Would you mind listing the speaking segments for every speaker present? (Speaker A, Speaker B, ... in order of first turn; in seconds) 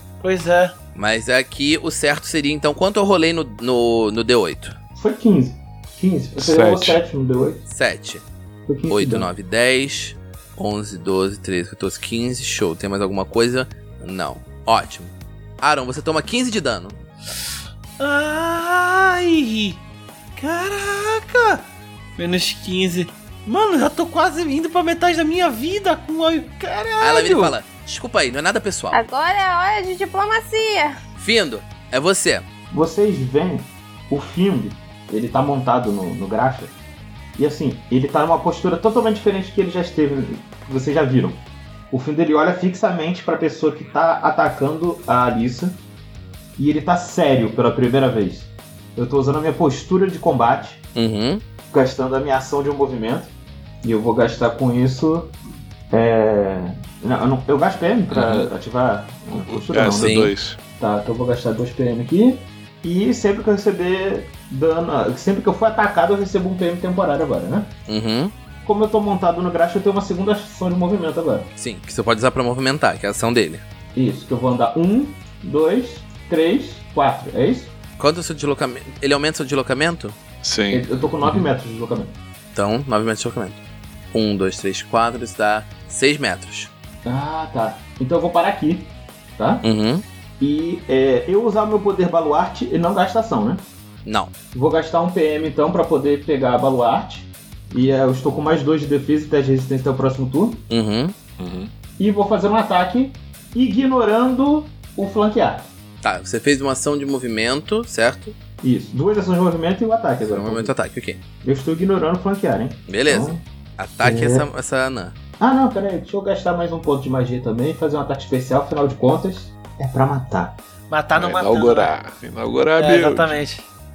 Speaker A: 0.2-0.7, 18.0-19.8, 20.4-21.6, 22.2-27.5, 120.9-121.9, 122.8-123.7
Speaker B: 0.9-4.8, 7.7-8.2, 8.9-17.0, 27.0-29.0, 31.2-32.5, 51.0-51.4, 59.9-60.3, 67.9-68.3, 71.6-73.6, 78.0-80.2, 82.5-83.6, 84.1-86.7, 89.6-90.0, 94.0-94.3, 100.7-101.1, 106.0-108.3, 110.2-111.2, 112.9-115.1
Speaker C: 4.9-7.6, 8.7-9.3, 32.7-36.7, 37.4-45.8, 46.6-50.8, 51.7-53.3, 53.8-55.3, 55.9-67.7, 68.6-71.5, 73.9-77.7, 80.7-82.2, 87.0-89.6, 90.4-93.6, 94.5-100.7, 102.0-105.7, 108.6-110.7, 111.4-113.4, 114.0-114.5, 115.4-120.5
Speaker D: 6.3-7.0, 58.1-58.5, 59.3-60.6, 80.4-81.5, 101.4-101.7, 121.1-123.4
Speaker E: 28.9-31.0